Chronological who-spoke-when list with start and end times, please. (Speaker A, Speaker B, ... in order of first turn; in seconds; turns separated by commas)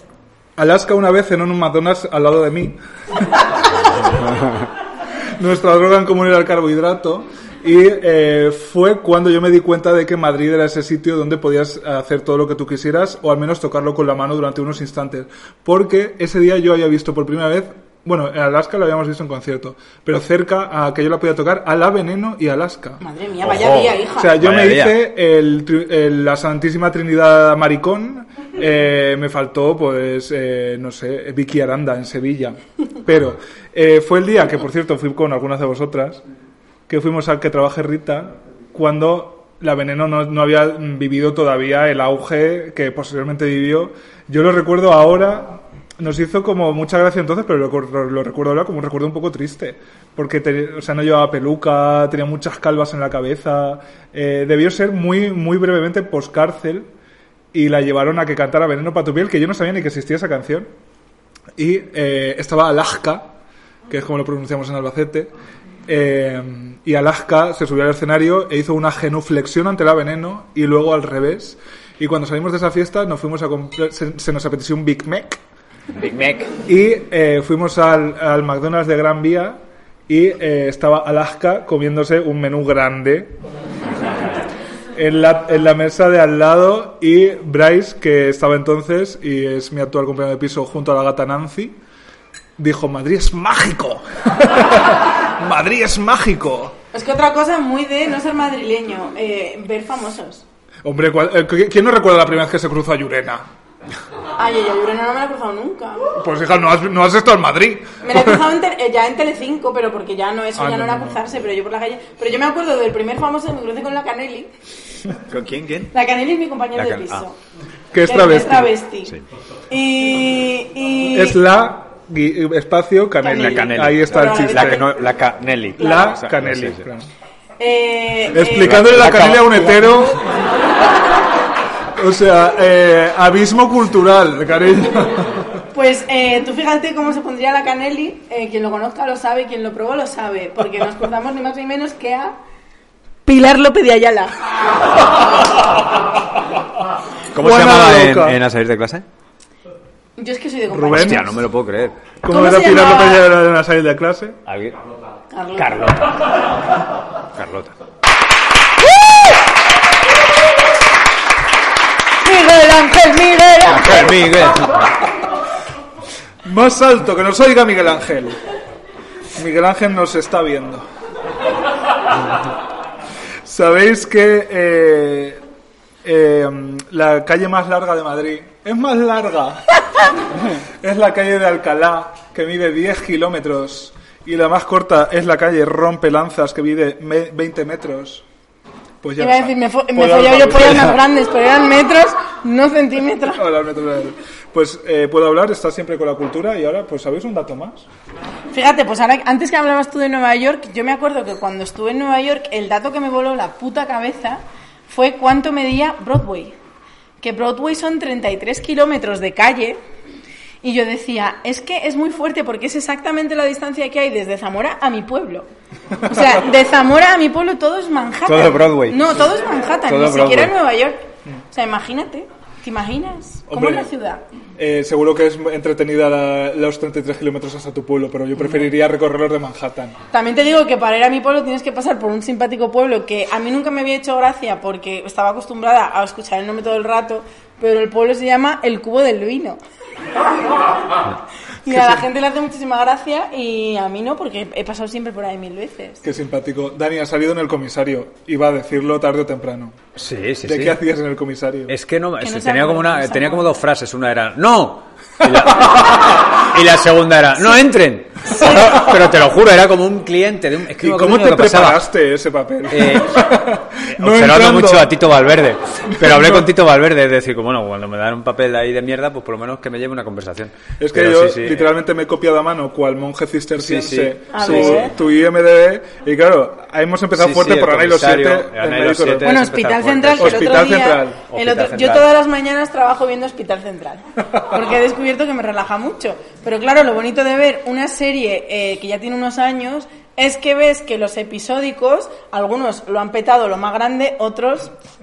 Speaker A: 0.6-3.9, Speaker A: 5.4-23.0, Speaker B: 23.0-24.4, Speaker C: 23.4-25.0, Speaker A: 24.2-36.2, Speaker A: 36.9-56.9, Speaker A: 57.5-60.7, Speaker A: 61.5-63.3, Speaker A: 63.9-65.3, Speaker A: 65.9-75.4, Speaker C: 76.0-76.5, Speaker A: 76.7-83.4, Speaker A: 85.0-91.8, Speaker A: 92.6-96.7, Speaker B: 96.9-100.4, Speaker A: 100.8-103.4, Speaker B: 104.4-106.1, Speaker A: 106.2-108.4, Speaker B: 108.0-114.5, Speaker A: 110.5-111.2, Speaker C: 115.3-115.9, Speaker B: 115.9-117.3, Speaker C: 116.8-117.2, Speaker A: 117.9-118.8, Speaker B: 118.0-119.1, Speaker B: 119.7-121.4, Speaker A: 121.1-124.9, Speaker B: 123.2-124.9, Speaker C: 123.2-126.8, Speaker A: 125.8-127.1, Speaker B: 127.6-128.7, Speaker A: 128.3-130.2, Speaker C: 128.6-129.9, Speaker A: 131.9-135.4, Speaker B: 135.7-142.3, Speaker B: 143.2-144.3, Speaker C: 147.3-149.0, Speaker A: 147.4-148.4, Speaker B: 150.2-151.4, Speaker A: 150.7-151.2, Speaker C: 150.9-151.9, Speaker A: 152.2-154.4, Speaker B: 152.3-153.2, Speaker C: 154.4-154.8, Speaker B: 155.3-155.8, Speaker C: 155.6-156.3, Speaker C: 157.3-157.7, Speaker B: 162.2-164.6, Speaker C: 163.7-164.9, Speaker A: 166.4-168.4, Speaker A: 169.3-170.8, Speaker A: 173.4-175.4, Speaker A: 176.0-179.7, Speaker A: 180.8-188.2, Speaker A: 189.0-191.0, Speaker B: 189.2-193.4, Speaker A: 193.3-197.9, Speaker B: 198.5-206.5, Speaker B: 207.2-209.8, Speaker B: 210.6-215.4, Speaker B: 216.0-224.2, Speaker C: 218.3-219.0, Speaker C: 219.9-220.5, Speaker A: 223.5-223.9, Speaker A: 224.6-229.9, Speaker B: 230.1-239.6, Speaker B: 241.6-246.0, Speaker A: 246.0-249.8, Speaker C: 249.9-250.8, Speaker A: 250.4-251.7, Speaker C: 251.7-261.8, Speaker B: 252.2-253.6, Speaker A: 260.8-264.9, Speaker C: 262.7-263.3, Speaker C: 263.9-271.7, Speaker A: 265.9-266.5, Speaker A: 270.8-279.3, Speaker C: 273.6-274.9, Speaker B: 274.3-274.9, Speaker C: 277.2-280.6, Speaker B: 279.2-294.7, Speaker A: 280.2-281.2, Speaker C: 281.3-282.1